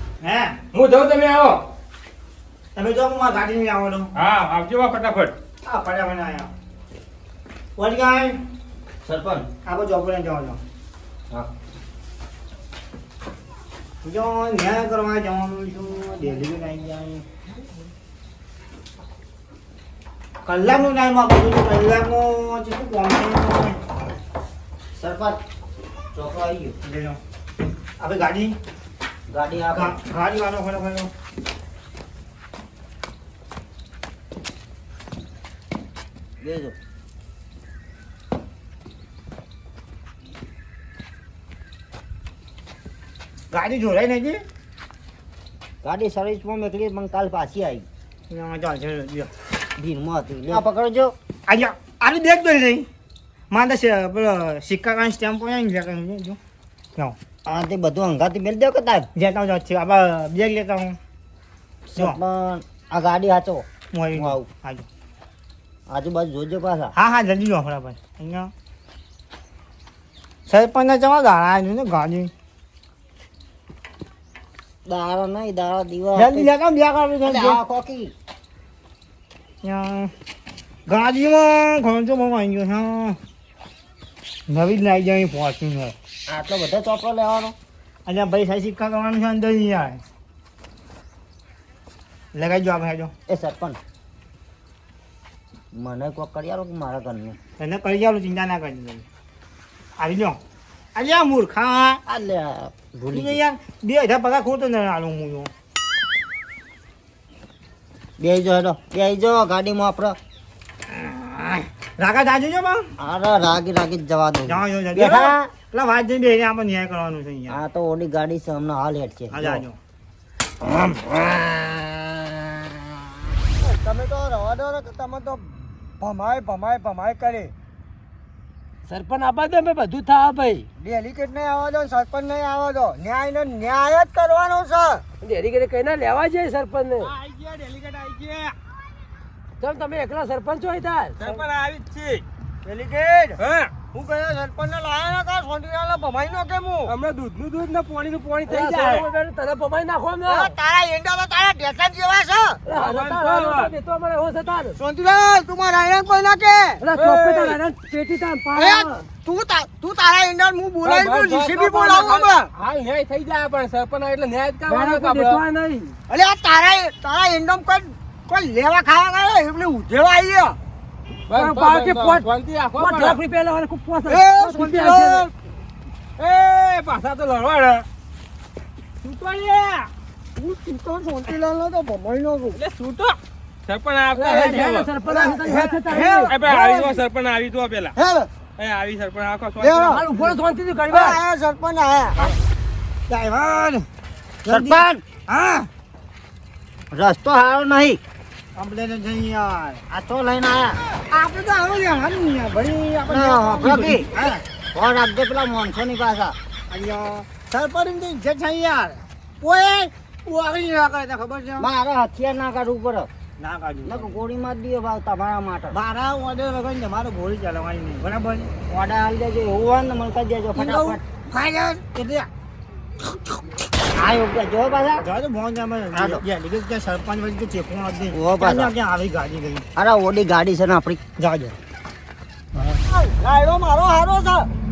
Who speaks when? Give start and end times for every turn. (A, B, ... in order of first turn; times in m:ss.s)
0:00.2-0:00.6 A
0:00.7-0:01.6 B
0:02.8-0:04.1 A
0:04.2-0:05.3 B
0:05.6-0:06.5 A
0:07.8-0:08.4 A
0:09.0-0:09.5 C
0:09.6-0:10.6 A
0:14.0-0:17.2 A
0:20.4-0:23.9 A
0:24.9-0:25.4 C
0:26.1-0:26.8 C
0:26.8-0:27.2 A
0:28.0-0:28.6 A
0:29.3-0:30.0 C
0:29.8-0:31.1 A
0:36.4-0:36.8 C
0:43.5-0:44.4 A
0:45.8-0:47.9 C
0:48.3-0:49.3 A
0:49.8-0:51.2 C
0:51.5-0:52.9 A
0:53.5-0:56.4 A
0:57.5-0:59.1 C
0:59.2-1:01.0 A
1:01.9-1:04.5 C
1:03.9-1:04.9 A
1:05.9-1:06.9 C
1:06.9-1:08.5 A
1:10.5-1:12.3 A
1:14.9-1:16.5 C
1:16.2-1:17.6 A
1:17.2-1:18.1 C
1:19.6-1:20.1 A
1:20.9-1:23.2 A
1:24.5-1:26.0 A
1:26.3-1:27.6 C
1:28.1-1:30.0 A
1:32.3-1:33.1 A
1:33.3-1:33.8 C
1:35.7-1:37.4 C
1:37.6-1:39.1 A
1:40.0-1:40.4 A
1:41.0-1:42.0 A
1:42.1-1:43.4 C
1:43.1-1:45.5 A
1:48.2-1:50.2 C
1:50.9-1:52.9 A
1:53.0-1:55.5 C
1:54.5-1:57.6 A
1:57.5-1:59.6 C
1:59.3-1:59.8 A
2:00.6-2:02.2 C
2:03.5-2:07.5 D
2:08.9-2:10.7 E
2:10.8-2:15.0 D
2:15.2-2:17.1 E
2:17.2-2:18.6 B
2:19.6-2:21.2 E
2:21.2-2:22.2 B
2:22.6-2:26.9 D
2:23.4-2:23.7 B
2:26.9-2:29.0 B
2:28.5-2:30.6 E
2:30.3-2:32.6 D
2:32.7-2:34.8 E
2:32.7-2:33.7 B
2:34.8-2:36.8 D
2:36.8-2:39.1 E
2:37.0-2:37.6 B
2:38.6-2:42.5 D
2:40.8-2:45.4 B
2:44.7-2:46.0 E
2:46.1-2:50.6 D
2:51.3-2:53.2 B
2:51.3-2:52.2 E
2:52.8-2:55.3 E
2:54.1-2:55.3 D
2:56.2-2:57.9 B
2:59.0-2:59.8 B
2:59.5-2:59.8 A
3:00.4-3:02.6 D
3:02.6-3:04.9 B
3:04.1-3:06.3 E
3:05.1-3:07.0 D
3:06.3-3:08.0 B
3:08.0-3:08.3 D
3:08.6-3:10.0 B
3:09.6-3:10.2 D
3:09.9-3:11.2 E
3:10.9-3:12.3 D
3:13.1-3:13.9 A
3:14.4-3:15.7 A
3:14.5-3:15.0 C
3:16.9-3:18.0 C
3:18.6-3:19.8 A
3:19.9-3:20.8 C
3:21.1-3:24.4 A
3:23.1-3:24.1 C
3:24.7-3:26.4 C
3:26.7-3:31.7 A
3:31.6-3:33.1 C
3:33.4-3:34.2 A
3:33.8-3:35.8 C
3:35.7-3:38.6 A
3:38.7-3:41.0 C
3:40.6-3:42.3 A
3:44.0-3:45.1 C
3:45.0-3:49.7 A
3:45.9-3:46.2 C
3:48.1-3:48.7 C
3:49.8-3:51.0 C
3:51.2-3:51.6 A
3:52.6-3:52.8 A
3:52.9-3:54.5 D